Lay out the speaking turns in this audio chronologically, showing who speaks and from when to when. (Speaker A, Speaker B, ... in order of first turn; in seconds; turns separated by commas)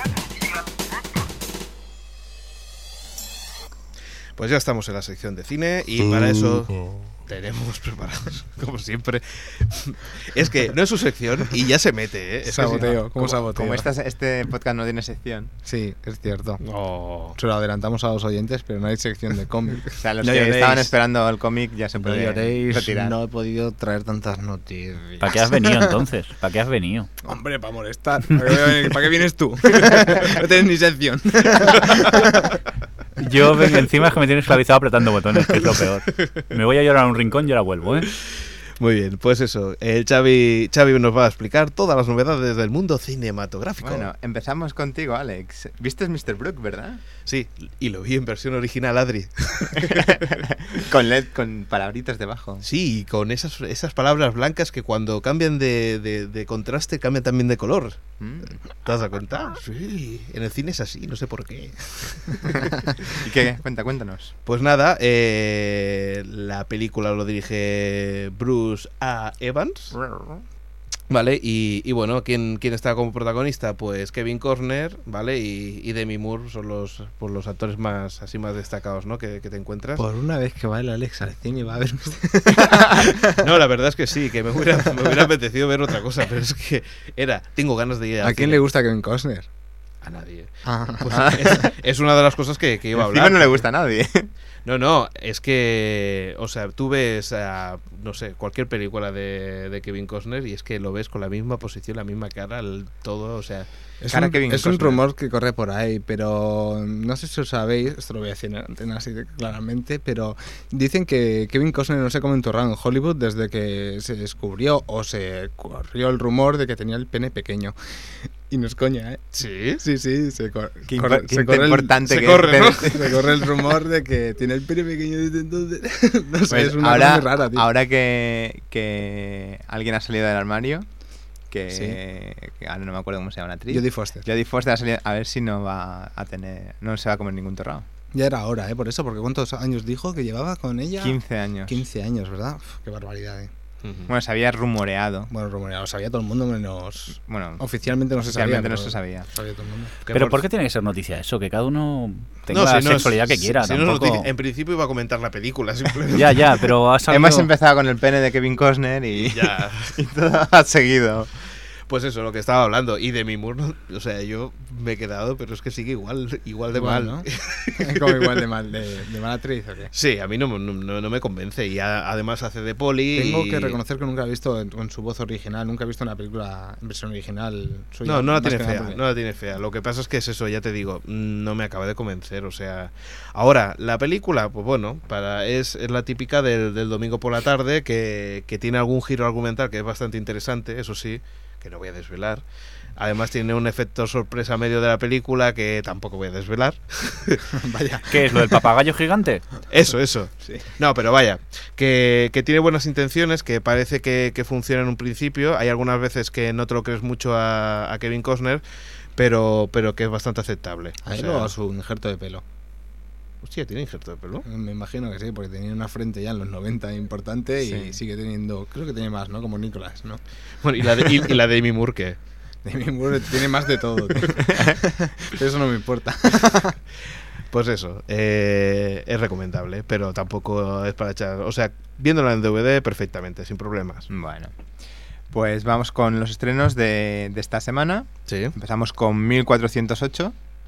Speaker A: 4.3-13.1, Speaker B: 12.4-13.9, Speaker C: 13.2-15.5, Speaker B: 15.6-16.6, Speaker A: 16.6-17.4, Speaker B: 17.3-20.9, Speaker C: 20.0-23.1, Speaker B: 22.0-26.0, Speaker D: 25.2-27.1, Speaker B: 27.2-32.5, Speaker D: 33.2-38.1, Speaker A: 38.8-44.1, Speaker C: 43.8-47.0, Speaker A: 47.2-50.3, Speaker C: 49.8-52.6, Speaker A: 52.6-58.0, Speaker C: 58.2-58.6, Speaker A: 58.8-63.2, Speaker C: 63.1-64.3, Speaker A: 64.4-70.0, Speaker A: 71.1-80.0, Speaker B: 80.0-83.4, Speaker A: 83.2-88.6, Speaker B: 88.2-89.5, Speaker A: 90.0-93.6, Speaker B: 90.6-91.6, Speaker C: 91.1-91.6, Speaker C: 92.9-94.3, Speaker A: 94.6-103.7, Speaker B: 104.0-117.7, Speaker C: 104.1-105.0, Speaker B: 118.5-127.7, Speaker A: 119.3-119.8, Speaker C: 120.9-123.2, Speaker A: 122.1-123.2, Speaker C: 126.5-130.9, Speaker C: 131.5-137.9, Speaker B: 131.7-132.0, Speaker B: 133.7-134.2, Speaker B: 138.1-143.5, Speaker C: 141.0-141.8, Speaker A: 143.8-144.1, Speaker C: 144.1-145.3, Speaker B: 145.3-149.9, Speaker C: 147.2-147.6, Speaker C: 148.2-149.3, Speaker A: 150.0-150.4, Speaker D: 150.1-154.3, Speaker A: 152.5-156.7, Speaker D: 156.1-157.5, Speaker C: 157.1-161.3, Speaker A: 159.2-160.0, Speaker A: 161.9-168.4, Speaker B: 166.7-169.9, Speaker A: 169.9-173.8, Speaker B: 173.1-179.0, Speaker A: 178.0-192.4, Speaker A: 192.9-197.5, Speaker B: 197.5-198.6, Speaker D: 198.1-199.5, Speaker A: 199.7-208.6, Speaker A: 209.1-211.5, Speaker B: 211.1-212.4, Speaker A: 213.4-214.4, Speaker B: 214.4-220.2, Speaker C: 217.6-218.0, Speaker A: 220.6-222.2, Speaker B: 222.6-226.8, Speaker C: 224.3-224.8, Speaker A: 227.5-234.1, Speaker C: 234.1-234.6, Speaker C: 235.3-240.3, Speaker A: 238.3-238.5